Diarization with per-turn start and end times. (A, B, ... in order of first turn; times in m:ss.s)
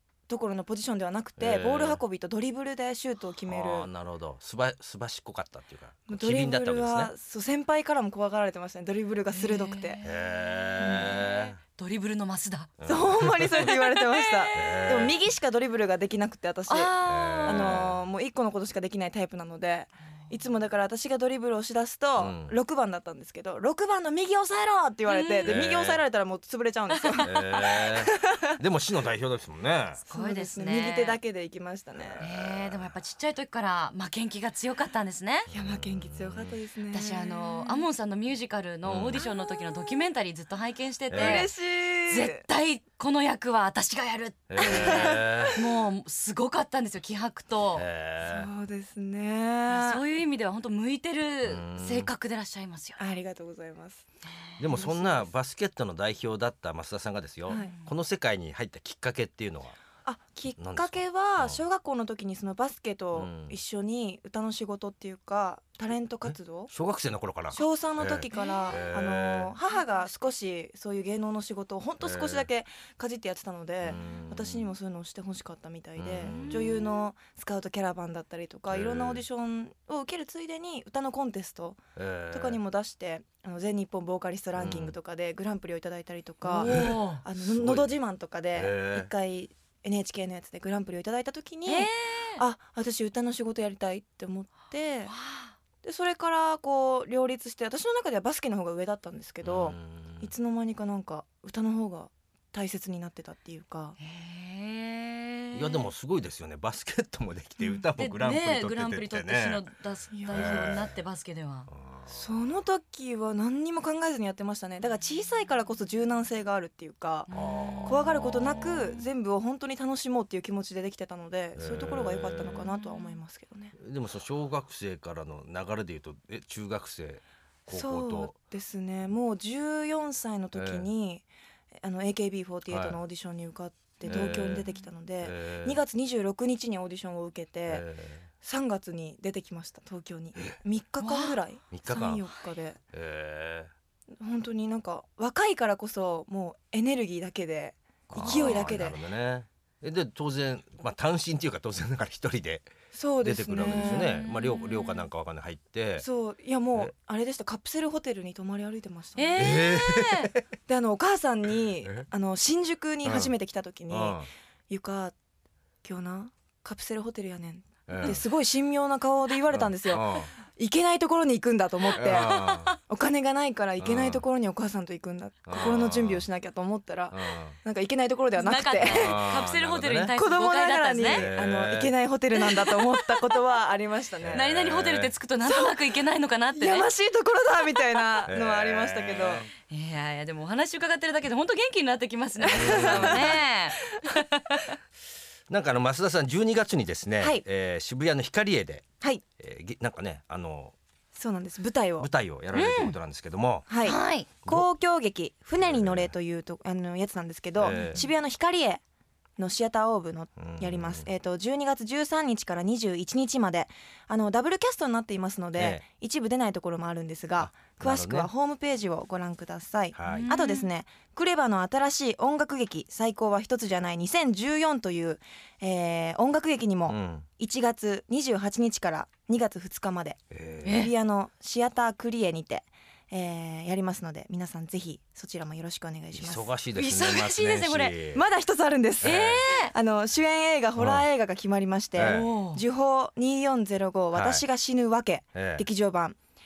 0:00.3-0:03.9 A
0:01.4-0:02.0 B
0:03.5-0:07.1 B
0:06.1-0:10.0 A
0:09.3-0:12.7 C
0:10.0-0:11.6 B
0:10.8-0:11.3 A
0:12.8-0:13.7 B
0:12.9-0:28.5 A
0:13.6-0:14.6 C
0:14.6-0:15.2 B
0:16.7-0:17.9 C
0:17.0-0:18.0 B
0:22.2-0:22.6 B
0:25.1-0:25.7 C
0:25.4-0:26.0 B
0:26.9-0:27.5 C
0:27.2-0:30.0 B
0:30.0-0:31.2 C
0:30.1-0:32.2 A
0:32.0-0:32.9 B
0:32.2-0:35.5 C
0:35.5-0:36.6 B
0:35.5-0:37.8 A
0:36.9-0:41.5 C
0:38.8-0:39.2 B
0:39.2-0:40.0 A
0:41.1-0:41.5 B
0:41.2-0:42.4 A
0:42.1-0:47.9 C
0:44.5-0:45.6 B
0:44.6-0:45.6 A
0:47.7-0:48.5 B
0:48.2-0:50.0 A
0:49.7-0:53.0 C
0:51.4-0:52.1 B
0:53.0-0:54.0 A
0:54.6-0:59.8 B
0:54.6-0:55.3 A
0:57.5-0:57.7 A
0:57.5-0:57.9 C
1:00.0-1:06.7 A
1:00.6-1:01.6 B
1:03.2-1:03.6 B
1:06.3-1:09.6 B
1:07.5-1:21.8 A
1:08.3-1:08.8 C
1:12.0-1:12.5 B
1:13.8-1:14.7 B
1:16.0-1:16.9 B
1:18.7-1:19.2 B
1:22.0-1:22.6 B
1:22.3-1:35.1 A
1:24.6-1:25.0 B
1:26.4-1:27.3 C
1:26.7-1:28.0 B
1:28.5-1:29.1 B
1:31.7-1:32.4 C
1:35.1-1:35.5 C
1:35.8-1:44.0 A
1:39.4-1:40.3 B
1:44.0-1:45.9 C
1:45.6-1:49.6 B
1:47.6-1:47.8 A
1:48.0-1:51.7 C
1:50.1-1:50.7 A
1:50.3-1:51.0 B
1:51.7-1:52.2 B
1:52.1-1:57.3 A
1:57.3-1:57.8 C
1:57.3-1:58.6 B
1:57.8-2:03.8 A
2:01.6-2:02.7 B
2:02.8-2:03.2 C
2:03.8-2:08.3 B
2:07.7-2:11.3 A
2:10.5-2:10.9 B
2:11.8-2:17.8 A
2:12.7-2:13.0 B
2:14.0-2:14.7 B
2:14.3-2:14.8 C
2:15.2-2:15.8 B
2:17.7-2:18.3 B
2:18.4-2:22.8 A
2:21.0-2:21.4 C
2:21.7-2:22.2 B
2:22.9-2:23.7 B
2:24.2-2:29.0 A
2:28.1-2:32.7 B
2:32.9-2:34.2 A
2:33.2-2:36.1 B
2:33.9-2:35.1 C
2:36.0-2:39.6 A
2:39.2-2:40.4 C
2:39.4-2:40.4 B
2:40.7-2:44.2 A
2:43.0-2:43.3 B
2:43.9-2:44.3 B
2:44.7-2:45.1 A
2:45.8-2:59.3 A
2:47.9-2:48.2 B
2:49.5-2:50.3 B
2:52.0-2:52.8 B
2:52.1-2:52.7 C
2:53.8-2:54.2 B
2:55.5-2:56.3 B
2:57.1-2:57.6 B
2:58.4-3:01.3 C
2:58.9-3:00.1 B
3:00.2-3:04.4 A
3:01.0-3:01.9 B
3:02.4-3:03.2 C
3:04.2-3:05.1 B
3:04.3-3:06.9 C
3:05.4-3:05.8 A
3:06.5-3:09.5 A
3:08.2-3:09.5 B
3:09.6-3:14.8 C
3:12.4-3:13.8 A
3:12.5-3:13.4 B
3:15.5-3:18.8 B
3:19.4-3:20.8 B
3:21.2-3:22.1 A
3:22.0-3:23.7 B
3:22.5-3:23.0 C
3:23.7-3:28.8 A
3:23.8-3:24.4 C
3:25.6-3:26.1 B
3:27.6-3:28.1 B
3:27.7-3:28.0 C
3:29.4-3:50.2 A
3:30.4-3:31.1 B
3:35.6-3:35.8 B
3:37.4-3:38.3 B
3:40.0-3:40.3 B
3:40.0-3:40.7 C
3:46.9-3:47.3 B
3:50.3-3:50.8 B
3:50.6-3:50.9 C
3:50.7-3:56.5 A
3:56.1-3:58.2 B
3:56.7-3:58.0 C
3:58.1-4:06.2 A
3:59.0-3:59.4 B
3:59.0-3:59.7 C
4:00.8-4:01.1 B
4:02.0-4:02.3 B
4:02.0-4:02.6 C
4:04.1-4:04.4 B
4:05.4-4:05.7 B